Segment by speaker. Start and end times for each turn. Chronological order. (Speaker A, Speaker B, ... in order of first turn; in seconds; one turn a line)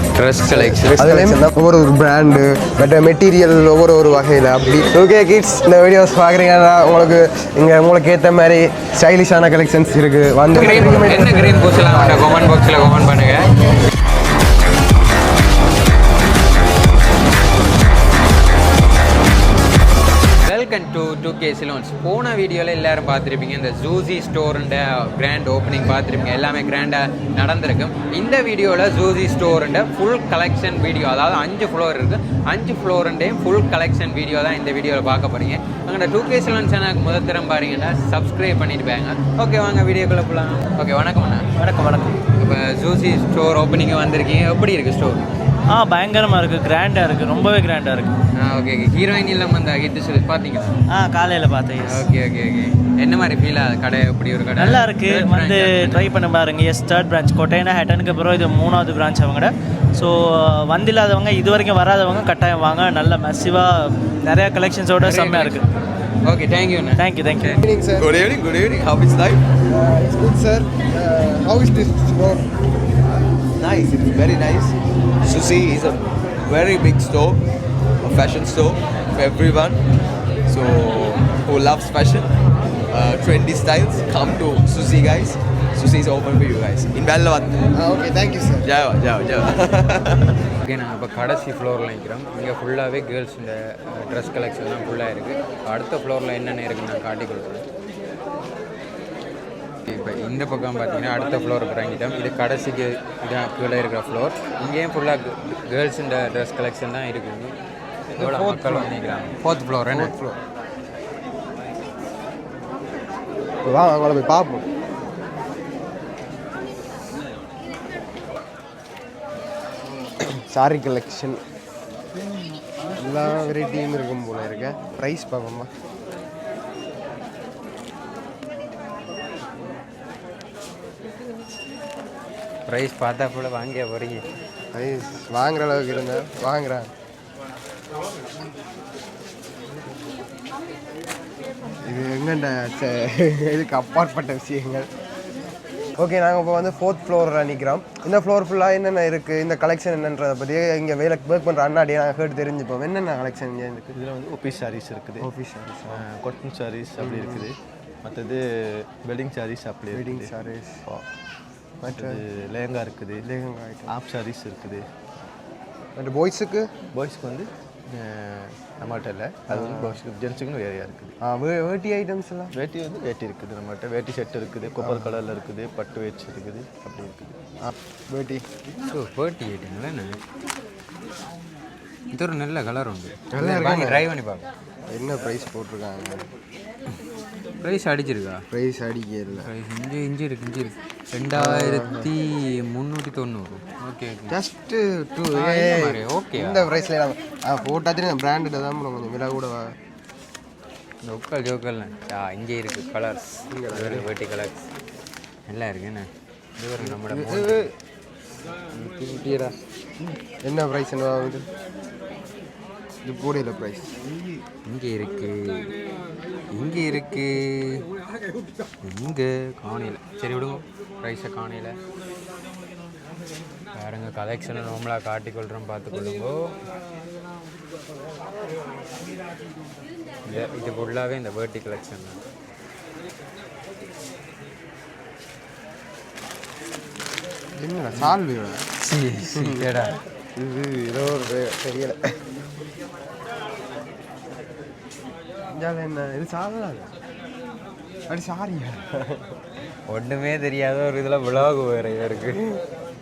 Speaker A: 0.1-1.4
Speaker B: 0.5-12.4
Speaker A: 10.5-13.5
Speaker A: 20.4-41.6
Speaker C: 41.6-42.1
Speaker A: 42.3-45.2
Speaker C: 45.7-48.1
Speaker A: 48.4-50.8
Speaker C: 50.9-52.1
Speaker A: 51.8-56.1
Speaker C: 54.5-65.7
Speaker A: 65.0-65.7
Speaker A: 66.2-67.6
Speaker C: 67.0-67.6
Speaker B: 67.6-68.1
Speaker D: 68.0-69.4
Speaker B: 69.7-72.5
Speaker D: 73.6-77.4
Speaker D: 78.0-79.8
Speaker D: 80.5-82.3
Speaker D: 82.9-87.7
Speaker B: 87.7-88.7
Speaker D: 88.6-90.3
Speaker A: 90.6-97.6
Speaker A: 99.8-107.5
Speaker B: 108.2-108.9
Speaker A: 108.2-110.1
Speaker B: 109.9-110.4
Speaker B: 113.6-114.7
Speaker B: 120.2-121.4
Speaker B: 123.0-125.7
Speaker A: 132.7-134.2
Speaker B: 134.7-136.9
Speaker B: 141.8-144.9
Speaker B: 146.0-153.9
Speaker E: 153.9-155.3
Speaker B: 155.2-156.0
Speaker E: 155.9-160.3
Speaker B: 157.0-157.5
Speaker B: 159.9-160.8
Speaker B: 161.8-162.2
Speaker E: 161.8-163.2
Speaker B: 163.2-163.9
Speaker E: 163.9-164.8
Speaker B: 165.9-166.7
Speaker E: 166.9-171.1
Speaker B: 169.5-170.0
Speaker B: 171.2-172.5
Speaker E: 172.5-177.3
Speaker B: 174.8-175.2
Speaker B: 177.6-178.4
Speaker A: 178.8-180.2
Speaker A: 182.1-184.4
Speaker B: 183.3-184.1
Speaker B: 184.9-186.2
Speaker A: 187.6-188.4
Speaker B: 188.5-189.5
Speaker A: 189.4-194.4
Speaker B: 191.3-192.1
Speaker B: 194.3-199.7
Speaker A: 195.3-196.7
Speaker A: 201.0-204.6
Speaker B: 203.5-204.1
Speaker A: 205.5-207.7
Speaker B: 206.8-207.7
Speaker A: 208.7-209.5
Speaker B: 210.4-211.4
Speaker B: 213.0-213.9
Speaker A: 214.7-215.7
Speaker A: 216.5-217.8
Speaker A: 218.8-221.8
Speaker A: 223.8-226.5
Speaker A: 230.2-232.2
Speaker B: 237.6-238.7
Speaker A: 238.8-240.0
Speaker B: 239.3-239.7
Speaker B: 240.4-242.2
Speaker B: 245.5-246.9
Speaker B: 248.1-249.3
Speaker A: 249.9-252.4